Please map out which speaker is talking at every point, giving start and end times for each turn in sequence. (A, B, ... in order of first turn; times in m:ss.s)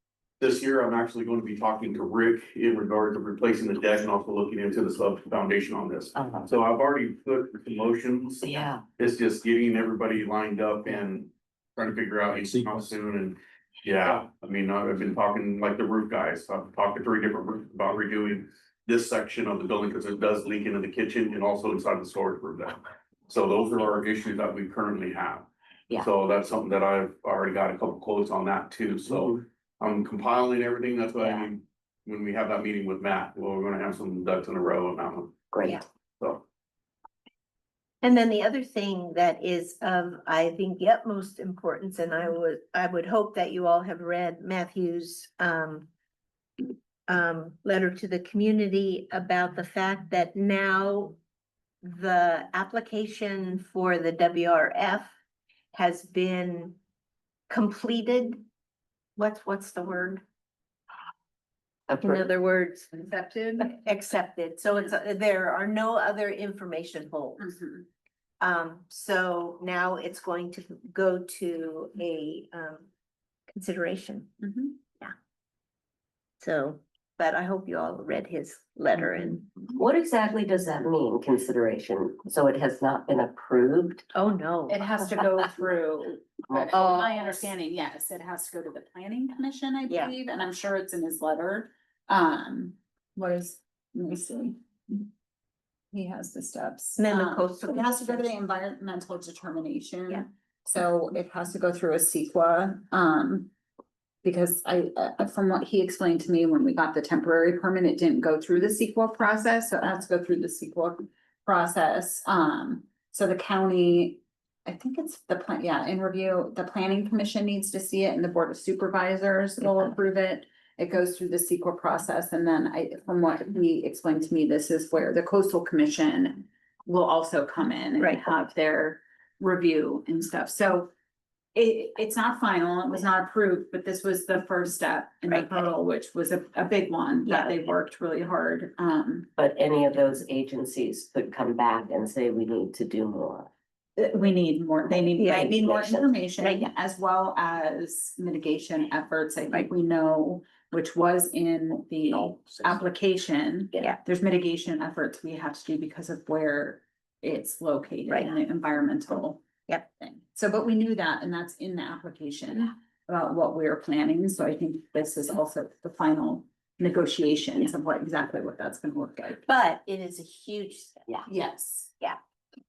0:00.4-0:35.4 A
0:06.1-0:06.5 B
0:08.4-0:08.8 B
0:31.2-0:31.5 B
0:35.5-0:35.8 B
0:38.0-0:45.9 C
0:46.6-0:51.2 C
0:51.8-0:55.1 C
0:55.7-0:56.8 C
0:57.5-0:58.4 C
0:59.2-1:00.2 C
1:01.9-1:02.2 B
1:02.0-1:03.1 C
1:02.9-1:03.8 D
1:03.6-1:07.6 C
1:07.4-1:07.9 D
1:08.4-1:12.9 C
1:13.5-1:14.3 C
1:14.4-1:14.8 D
1:16.4-1:19.5 C
1:19.7-1:24.1 B
1:24.1-1:24.8 C
1:24.7-1:35.1 D
1:26.5-1:26.8 B
1:26.7-1:27.4 C
1:35.9-1:43.5 D
1:37.0-1:38.3 C
1:44.2-2:10.9 D
2:08.0-2:08.2 C
2:11.5-2:19.3 D
2:15.3-2:15.6 C
2:17.2-2:17.5 C
2:19.4-2:23.5 B
2:24.0-2:39.4 D
2:25.2-2:26.1 B
2:26.4-2:26.7 C
2:38.1-2:38.4 C
2:40.0-2:49.4 D
2:49.4-2:51.0 C
2:51.3-2:51.9 D